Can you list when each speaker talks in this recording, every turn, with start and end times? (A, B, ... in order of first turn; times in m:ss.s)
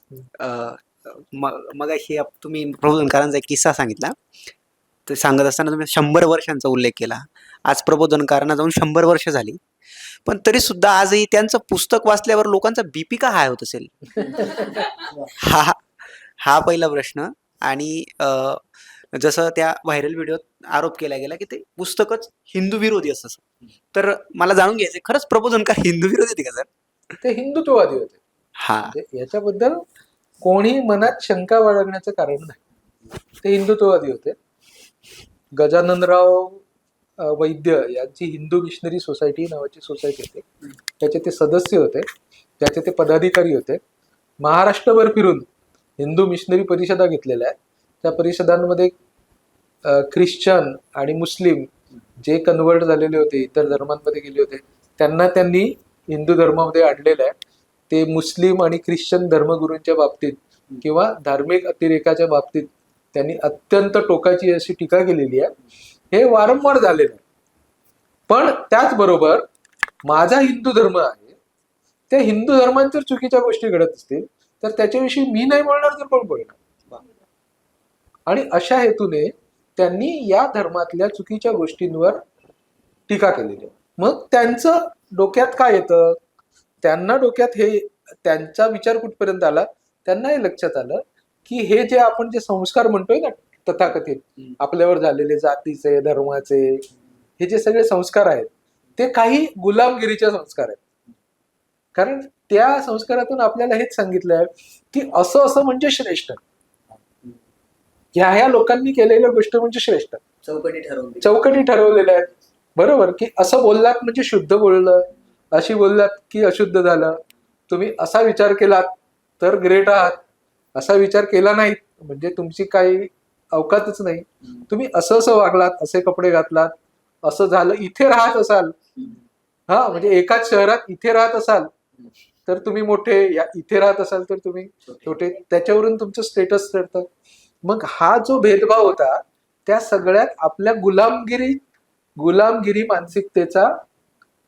0:00.4-0:04.2 A
0:05.1-0:09.6 A
0:10.3-0:15.8 A
0:16.4-0:26.7 A
0:27.2-0:28.2 B
0:28.6-0:29.0 A
0:28.8-0:29.8 B
0:30.4-0:32.6 B
0:33.4-0:34.4 B
0:35.6-0:36.6 B
0:37.2-0:40.4 B
0:41.0-0:42.1 B
0:42.6-0:43.8 B
0:44.4-0:45.5 B
0:46.0-0:49.0 B
0:49.8-0:57.3 B
0:57.9-1:05.5 B
1:06.1-1:07.2 B
1:08.3-1:09.4 B
1:10.0-1:11.4 B
1:12.1-1:16.6 B
1:18.3-1:22.2 B
1:23.1-1:26.2 B
1:26.8-1:36.9 B
1:37.4-1:40.8 B
1:42.0-1:46.4 B
1:48.1-1:50.2 B
1:50.5-1:51.3 A
1:51.2-2:00.2 B
2:00.8-2:08.8 B
2:09.7-2:11.7 B
2:12.5-2:17.1 B
2:17.6-2:21.6 B
2:22.2-2:23.7 B